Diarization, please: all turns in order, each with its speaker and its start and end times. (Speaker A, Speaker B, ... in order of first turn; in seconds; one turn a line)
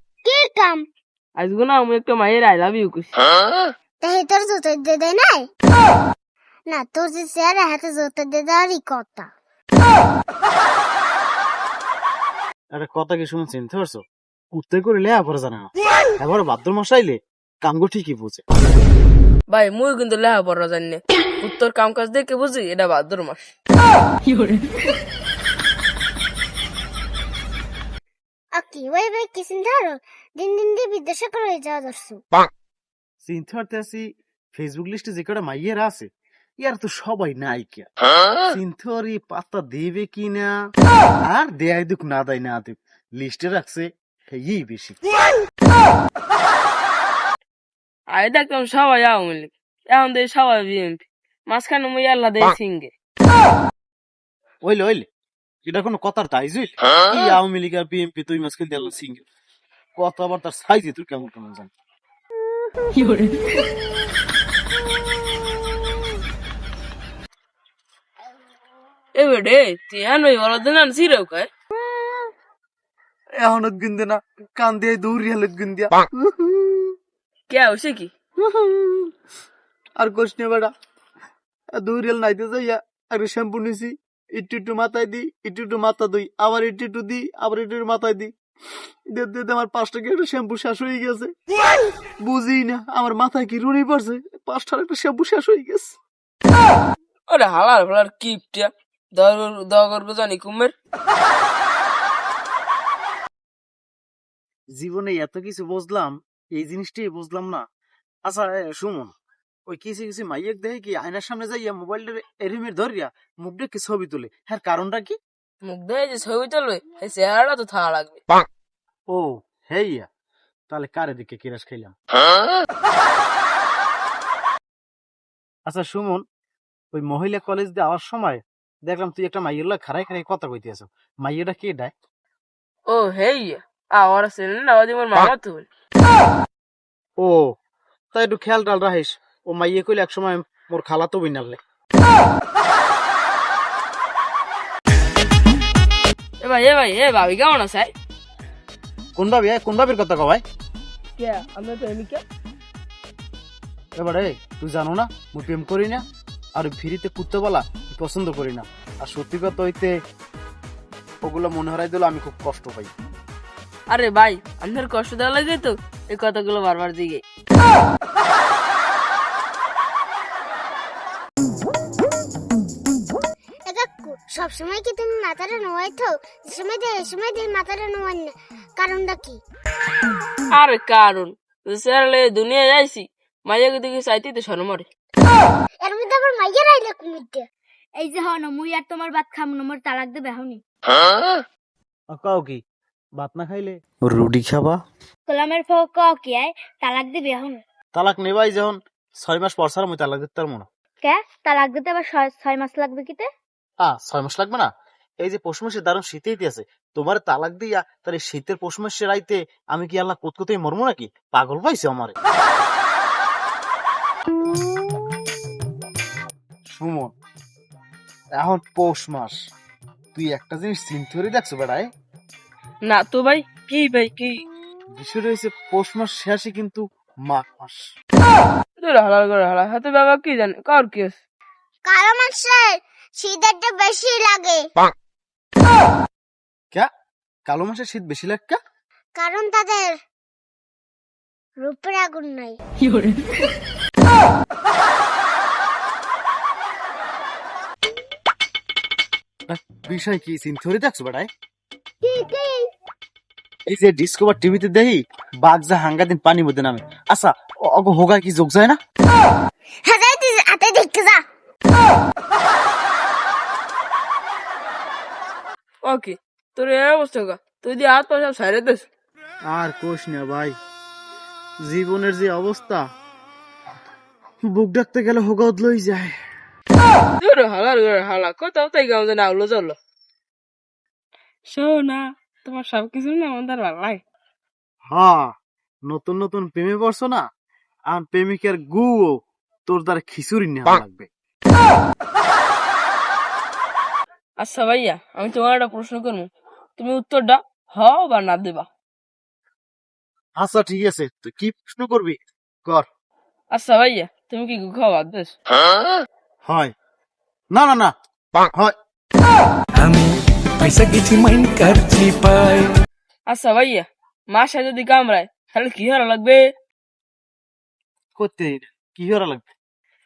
Speaker A: 0.2-0.8
Speaker B: 1.4-3.1
Speaker A: 4.0-5.5
Speaker A: 6.7-9.3
Speaker C: 12.8-14.0
Speaker C: 14.6-18.4
Speaker B: 19.5-23.5
Speaker A: 28.6-32.2
Speaker C: 33.2-36.1
Speaker C: 36.6-37.9
Speaker C: 38.5-40.5
Speaker C: 41.3-45.0
Speaker B: 48.1-52.9
Speaker C: 54.6-55.0
Speaker C: 55.6-59.2
Speaker C: 60.0-61.7
Speaker D: 63.0-63.5
Speaker A: 65.2-65.6
Speaker B: 69.2-71.5
Speaker A: 71.8-72.3
Speaker C: 73.4-77.0
Speaker B: 77.5-78.1
Speaker C: 78.4-79.1
Speaker C: 80.0-80.7
Speaker C: 81.8-88.3
Speaker C: 89.1-91.3
Speaker C: 92.2-95.9
Speaker B: 97.3-100.7
Speaker C: 104.8-107.6
Speaker C: 108.3-109.1
Speaker C: 109.7-115.2
Speaker B: 115.6-118.2
Speaker C: 119.1-120.1
Speaker C: 120.7-121.9
Speaker C: 125.7-126.2
Speaker C: 126.9-131.9
Speaker B: 132.9-135.7
Speaker C: 137.2-137.5
Speaker C: 138.1-141.6
Speaker B: 146.4-147.9
Speaker C: 149.2-150.4
Speaker B: 151.2-152.2
Speaker C: 154.0-156.0
Speaker C: 156.6-160.0
Speaker C: 161.2-162.9
Speaker B: 163.9-167.2
Speaker A: 173.7-179.4
Speaker B: 180.5-184.8
Speaker A: 185.8-187.4
Speaker D: 188.0-190.6
Speaker C: 192.1-192.6
Speaker C: 193.2-194.8
Speaker D: 195.3-197.6
Speaker C: 197.9-200.7
Speaker D: 201.0-203.3
Speaker C: 203.8-204.7
Speaker C: 205.2-212.2
Speaker C: 216.7-217.1
Speaker C: 218.4-219.3
Speaker C: 220.2-221.9
Speaker B: 222.9-224.4
Speaker C: 224.9-227.8
Speaker B: 228.8-231.2
Speaker A: 231.9-234.6
Speaker C: 237.5-238.6
Speaker A: 239.2-239.9
Speaker A: 241.6-242.6
Speaker D: 242.9-243.1
Speaker C: 249.5-251.3
Speaker D: 252.1-252.5
Speaker C: 253.7-258.8
Speaker A: 259.9-261.2
Speaker B: 265.9-268.9
Speaker C: 269.5-270.6
Speaker C: 271.6-272.8
Speaker C: 274.5-276.2
Speaker B: 277.2-279.8
Speaker B: 281.5-284.0
Speaker C: 284.9-285.3
Speaker C: 285.9-287.2
Speaker C: 287.9-289.2
Speaker C: 289.7-291.1
Speaker B: 294.4-298.7
Speaker C: 300.4-302.9
Speaker B: 303.5-305.3
Speaker C: 306.5-306.7
Speaker C: 307.5-307.9
Speaker E: 309.8-312.7
Speaker B: 313.3-316.4
Speaker C: 318.2-319.5